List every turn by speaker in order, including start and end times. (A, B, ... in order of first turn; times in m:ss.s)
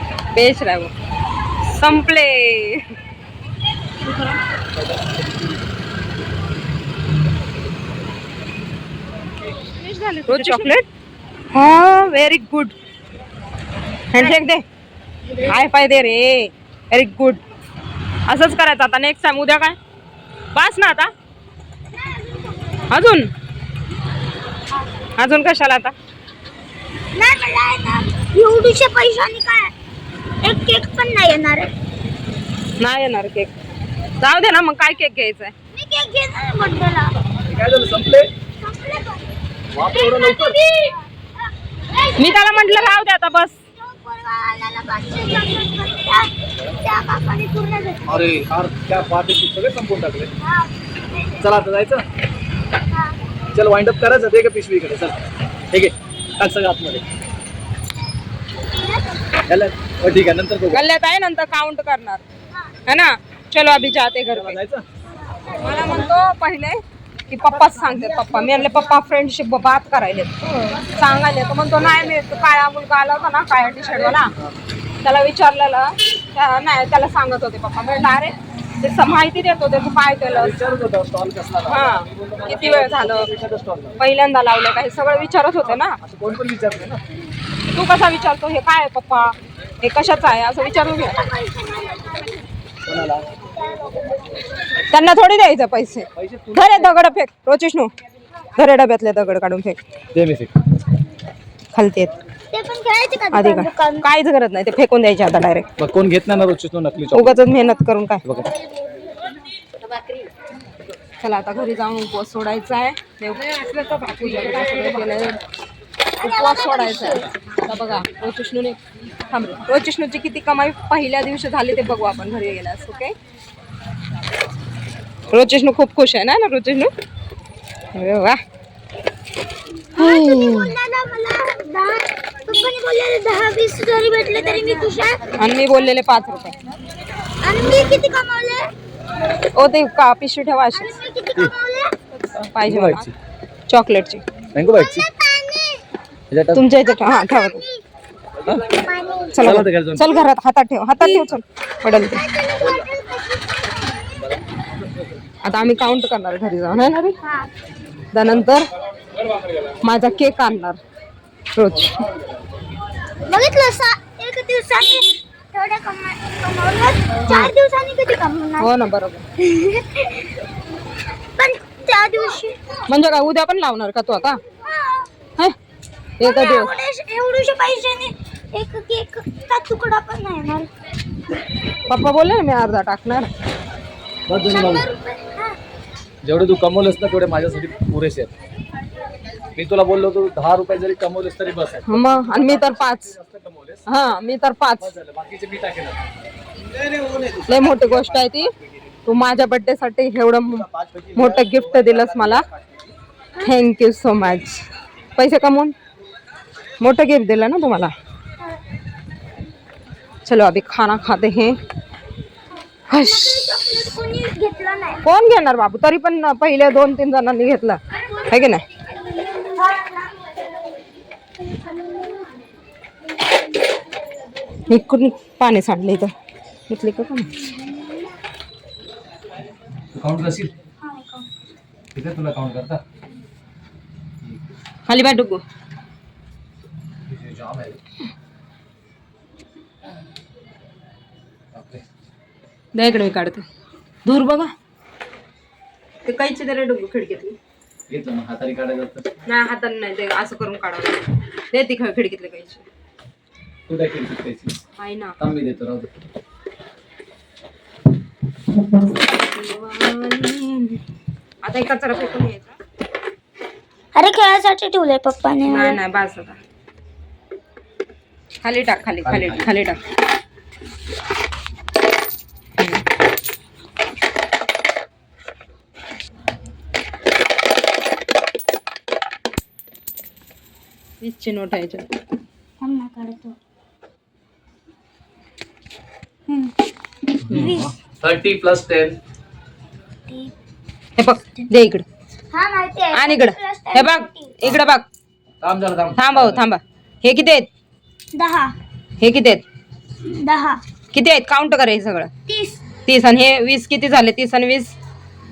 0:00.4-0:00.9 A
0:01.7-0:02.8 A
0:09.8-0:10.8 A
0:11.5-0:12.7 A
0:14.1-0:14.6 A
0:15.5-0:17.4 A
0:18.3-0:19.8 A
0:20.5-0:21.1 A
0:21.9-0:23.0 B
0:22.9-0:23.3 A
0:25.2-0:25.9 A
0:27.1-0:29.7 B
0:30.4-0:31.7 B
0:32.8-0:33.5 A
0:34.2-0:35.5 A
0:35.7-0:37.2 B
0:37.5-0:38.3 C
0:38.6-0:39.2 B
0:39.7-0:40.6 C
0:39.8-0:41.1 B
0:41.9-0:43.0 B
0:42.2-0:43.6 A
0:43.7-0:46.3 B
0:46.8-0:48.1 B
0:48.0-0:50.3 C
0:50.4-0:51.4 B
0:51.4-0:52.0 C
0:52.9-0:53.2 B
0:53.5-0:55.2 C
0:55.7-0:57.0 C
0:58.7-0:59.4 B
0:59.5-1:00.8 C
1:00.7-1:02.2 A
1:02.9-1:04.6 A
1:04.3-1:04.8 C
1:05.6-1:10.3 A
1:11.0-1:14.3 A
1:15.0-1:20.6 A
1:20.2-1:24.0 C
1:21.7-1:23.3 A
1:24.0-1:26.0 A
1:25.7-1:27.0 C
1:27.7-1:31.2 A
1:30.6-1:32.4 B
1:32.8-1:33.2 C
1:33.6-1:34.2 B
1:34.9-1:37.9 A
1:36.2-1:36.9 C
1:38.6-1:39.8 A
1:40.1-1:40.6 C
1:41.7-1:42.1 A
1:42.5-1:44.1 B
1:43.3-1:45.7 A
1:45.8-1:47.4 C
1:47.1-1:48.2 A
1:51.2-1:55.4 A
1:56.2-1:57.3 B
1:56.2-1:58.8 A
1:59.3-2:03.1 A
2:05.3-2:06.9 A
2:07.9-2:08.4 A
2:10.0-2:15.3 B
2:10.0-2:10.7 A
2:15.4-2:16.6 A
2:17.4-2:18.7 B
2:19.5-2:21.0 A
2:20.7-2:21.9 B
2:22.3-2:23.1 C
2:22.5-2:23.1 A
2:23.7-2:24.2 A
2:24.5-2:25.1 C
2:24.9-2:25.8 B
2:26.3-2:26.6 C
2:26.5-2:27.6 A
2:26.8-2:27.8 B
2:28.7-2:29.6 B
2:29.4-2:32.3 A
2:29.4-2:30.2 C
2:31.8-2:33.8 B
2:32.4-2:32.9 C
2:34.2-2:35.5 C
2:35.4-2:37.2 A
2:37.2-2:37.5 B
2:38.1-2:38.7 A
2:39.8-2:40.8 A
2:41.6-2:42.0 A
2:43.3-2:48.7 B
2:48.6-2:49.2 A
2:49.4-2:50.2 B
2:51.4-2:52.8 B
2:52.9-2:54.4 A
2:54.5-2:55.1 B
2:56.2-2:56.7 A
2:56.2-3:00.7 B
3:01.9-3:03.3 A
3:04.3-3:04.9 C
3:04.3-3:05.6 B
3:06.2-3:08.3 C
3:09.6-3:13.9 C
3:11.9-3:13.1 A
3:13.9-3:14.9 A
3:14.8-3:16.0 C
3:16.7-3:18.0 C
3:17.5-3:18.5 A
3:19.0-3:22.4 A
3:20.6-3:22.4 C
3:23.4-3:24.6 A
3:25.2-3:25.7 A
3:26.8-3:27.9 A
3:30.2-3:31.6 A
3:32.9-3:33.8 A
3:32.9-3:35.0 B
3:35.0-3:38.6 A
3:39.4-3:40.2 B
3:44.7-3:46.1 A
3:46.7-3:47.3 A
3:49.9-3:50.5 C
3:50.8-3:51.2 B
3:51.9-3:52.8 C
3:54.2-3:54.5 C
3:54.9-3:55.4 A
3:57.1-3:57.8 C
4:01.5-4:01.8 C
4:02.7-4:03.4 A
4:04.0-4:04.5 A
4:06.0-4:07.4 A
4:07.9-4:09.1 C
4:09.2-4:11.0 A
4:11.5-4:12.6 A
4:13.7-4:14.6 C
4:14.8-4:15.2 A
4:15.2-4:15.9 C
4:19.0-4:20.8 A
4:21.4-4:22.6 A
4:23.9-4:25.8 B
4:25.4-4:26.4 A
4:28.4-4:29.8 A
4:29.0-4:29.5 C
4:32.6-4:32.8 A
4:41.0-4:41.9 A
4:42.6-4:43.4 B
4:46.3-4:46.6 B
4:47.2-4:49.0 C
4:47.3-4:47.7 B
4:51.0-4:51.8 A
4:52.3-4:54.3 B
4:52.9-4:54.8 A
4:55.4-4:56.4 C
4:56.0-4:57.5 A
4:58.1-4:58.5 B
4:59.0-4:59.4 A
5:00.0-5:00.6 B
5:00.9-5:02.1 A
5:02.3-5:02.7 B
5:02.9-5:04.8 A